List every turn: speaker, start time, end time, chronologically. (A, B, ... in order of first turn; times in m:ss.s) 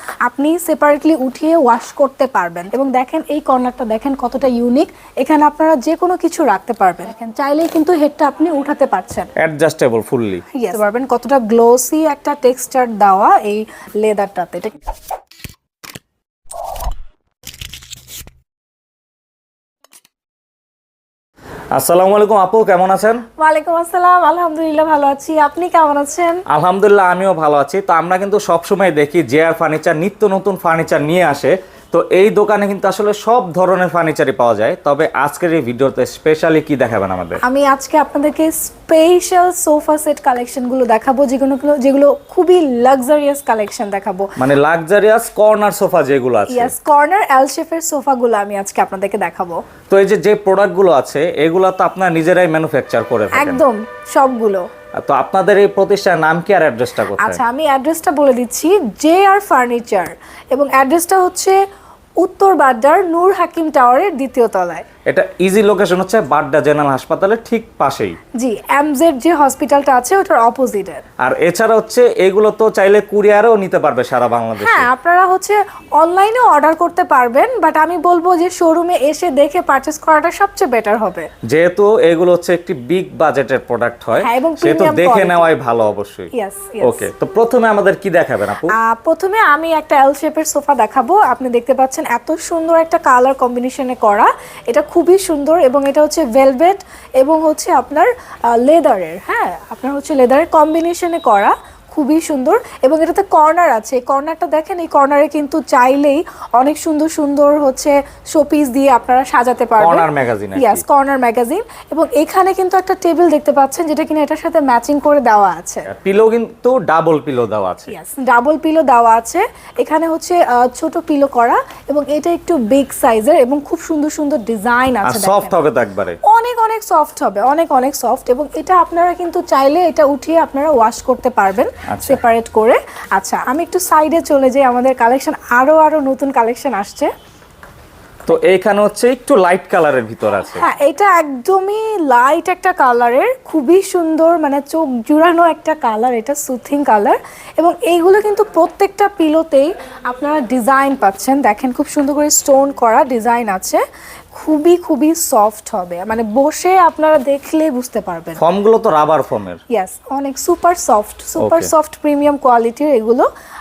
0:00.2-0:09.3 A
0:09.4-0:10.4 B
0:10.5-0:14.8 A
0:21.7-0:23.2 B
0:23.4-0:26.4 A
0:26.5-0:37.4 B
0:37.4-0:44.3 A
0:44.4-0:46.7 B
0:46.5-0:49.6 A
0:49.9-0:53.6 B
0:53.3-0:54.6 A
0:55.0-0:57.4 B
0:57.2-1:01.6 A
1:02.2-1:04.8 A
1:05.1-1:08.2 B
1:08.4-1:11.0 A
1:11.2-1:14.9 B
1:14.6-1:21.3 A
1:21.5-1:26.3 B
1:24.2-1:25.4 A
1:26.3-1:27.1 A
1:26.8-1:28.7 B
1:28.7-1:55.9 A
1:49.8-1:50.8 B
1:55.9-1:57.9 B
1:57.9-2:05.6 A
2:05.0-2:06.2 B
2:06.2-2:17.1 A
2:11.9-2:12.2 B
2:18.3-2:20.6 B
2:20.6-2:33.8 A
2:34.3-2:38.4 A
2:38.4-2:39.6 B
2:39.7-2:43.3 A
2:41.4-2:41.7 B